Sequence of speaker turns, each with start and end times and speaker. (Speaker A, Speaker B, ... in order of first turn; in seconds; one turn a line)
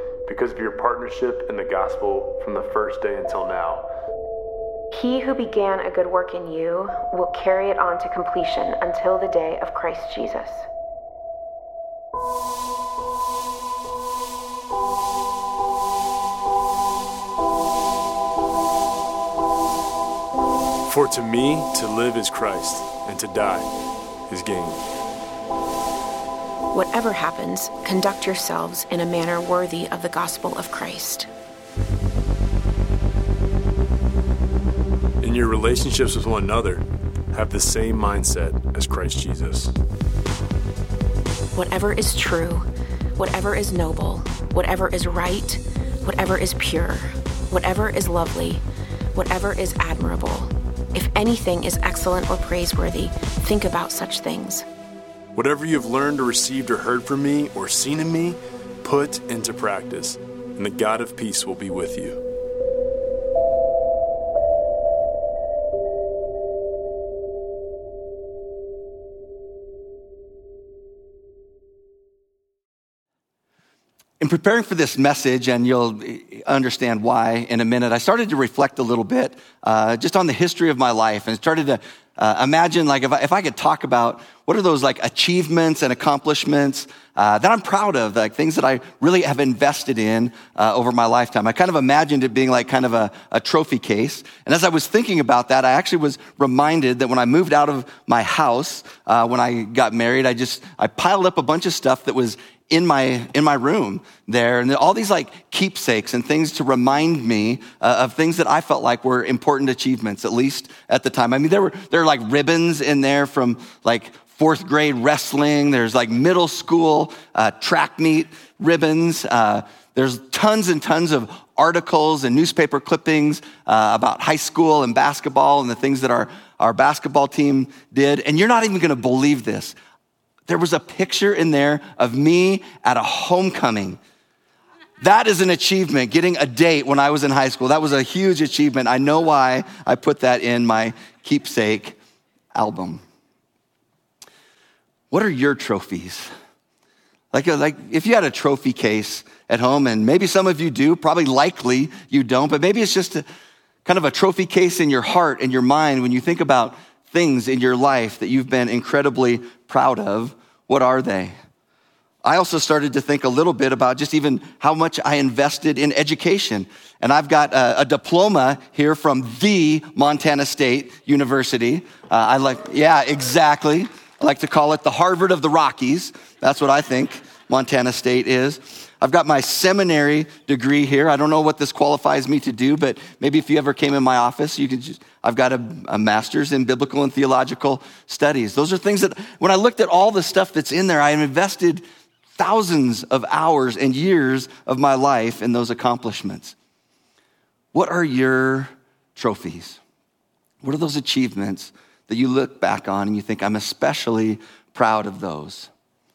Speaker A: 0.3-3.8
Speaker B: 4.9-10.7
Speaker A: 20.9-23.7
Speaker A: 24.3-24.8
Speaker B: 26.7-31.3
Speaker A: 35.2-39.7
Speaker B: 41.5-48.6
Speaker B: 49.1-54.7
Speaker A: 55.3-62.2
Speaker C: 74.2-129.8
Speaker C: 130.5-134.0
Speaker C: 135.0-142.0
Speaker C: 142.5-143.0
Speaker C: 145.1-146.3
Speaker C: 147.3-153.2
Speaker C: 153.8-161.3
Speaker C: 162.2-191.8
Speaker C: 192.4-196.6
Speaker C: 197.7-199.8
Speaker C: 200.6-205.7